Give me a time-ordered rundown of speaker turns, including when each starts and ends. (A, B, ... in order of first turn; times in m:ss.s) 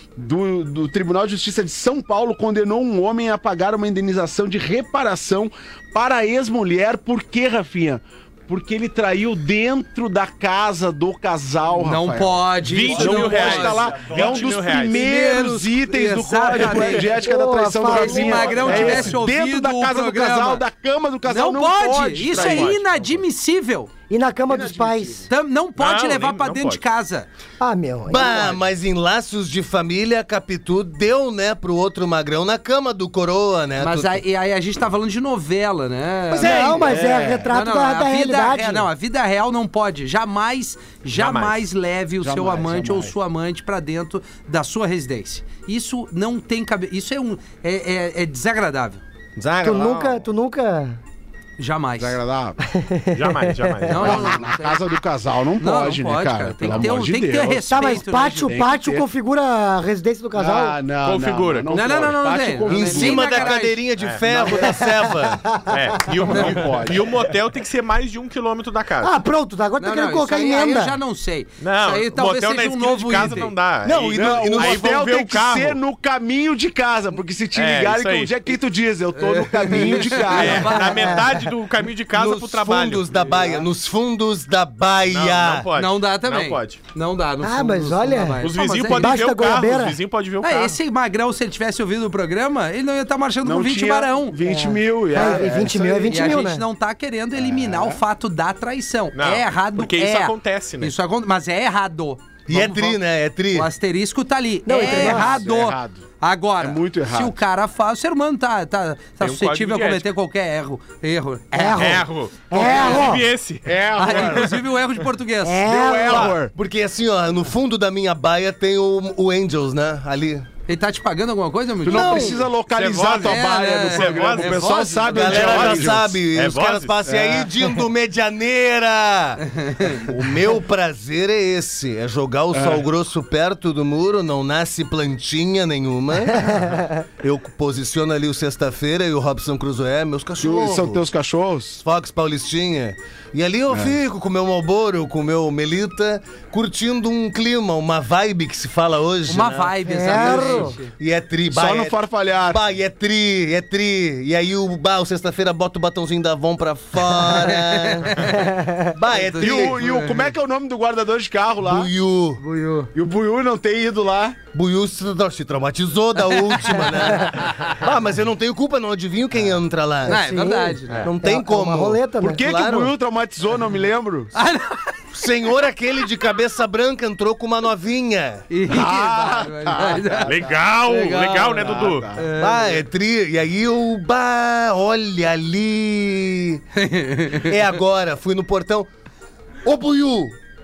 0:00.2-0:12.4 A
0:11.8-0:17.1 B
0:12.6-0:15.0 C
0:12.9-0:22.8 A
0:13.2-0:14.6 D
0:17.2-0:19.1 E
0:17.8-0:20.6 B
0:21.2-0:23.9 B
0:22.3-0:23.0 C
0:24.1-0:25.2 E
0:24.5-0:25.3 A
0:25.3-0:27.3 B
0:25.8-0:26.8 C
0:27.6-0:28.6 E
0:28.1-0:34.2 D
0:33.8-0:49.0 B
0:36.3-0:38.9 E
0:36.4-0:37.4 A
0:36.6-0:37.2 D
0:41.1-0:41.6 C
0:42.2-0:43.1 A
0:49.4-0:50.2 D
0:49.6-0:51.0 E
0:51.6-0:52.2 B
0:52.0-0:52.6 A
0:52.7-0:54.1 E
0:53.1-0:54.4 C
0:53.9-0:54.8 B
0:54.0-0:59.0 A
0:55.6-0:58.6 B
0:57.7-1:00.8 E
1:00.4-1:03.4 A
1:01.0-1:02.0 C
1:01.7-1:03.8 B
1:02.7-1:05.4 D
1:04.3-1:04.6 A
1:04.6-1:05.7 E
1:05.7-1:09.1 C
1:06.3-1:07.1 A
1:09.0-1:11.0 E
1:09.8-1:13.5 B
1:11.6-1:15.8 C
1:13.8-1:15.0 D
1:14.1-1:20.8 A
1:17.5-1:18.3 C
1:19.2-1:21.2 B
1:20.1-1:23.2 C
1:20.7-1:21.4 E
1:22.1-1:25.7 D
1:23.2-1:23.6 B
1:25.0-1:26.8 C
1:25.8-1:29.2 B
1:27.4-1:30.0 E
1:28.4-1:30.8 C
1:30.4-1:34.4 B
1:33.4-1:36.3 A
1:34.4-1:36.6 E
1:35.1-1:43.0 B
1:37.6-1:37.9 A
1:39.1-1:40.9 C
1:42.5-1:43.7 D
1:43.5-1:52.0 B
1:44.6-1:45.4 E
1:44.9-1:46.0 A
1:46.6-1:47.4 A
1:49.2-1:50.1 C
1:51.5-1:53.2 E
1:51.7-1:54.6 C
1:52.5-1:53.1 B
1:53.6-1:54.6 A
1:54.0-1:55.6 B
1:55.4-1:56.4 E
1:55.6-1:56.5 A
1:56.1-2:00.5 D
2:00.7-2:02.4 B
2:01.8-2:06.1 A
2:01.9-2:02.4 D
2:02.7-2:07.0 C
2:03.2-2:05.9 B
2:05.0-2:21.0 D
2:07.1-2:07.5 A
2:09.6-2:10.0 B
2:12.5-2:12.8 A
2:20.4-2:21.8 A
2:21.8-2:38.2 D
2:23.7-2:23.9 A
2:29.3-2:30.9 B
2:29.8-2:30.8 E
2:31.5-2:32.6 A
2:37.0-2:38.5 B
2:38.3-2:38.8 E
2:38.9-2:39.8 D
2:39.1-2:40.3 B
2:39.4-2:41.9 A
2:41.6-2:42.4 D
2:42.4-2:42.9 E
2:42.9-2:44.4 A
2:44.5-2:50.2 D
2:46.3-2:47.0 B
2:50.0-2:51.1 B
2:50.0-2:52.5 E
2:51.0-2:52.9 D
2:52.2-2:54.3 A
2:54.3-2:55.0 B
2:55.1-2:58.5 D
2:58.5-3:01.6 B
2:58.7-3:00.6 A
3:00.2-3:02.1 C
3:01.1-3:02.3 A
3:02.1-3:02.8 B
3:02.4-3:06.6 D
3:06.7-3:07.5 B
3:07.3-3:08.9 D
3:09.6-3:10.4 D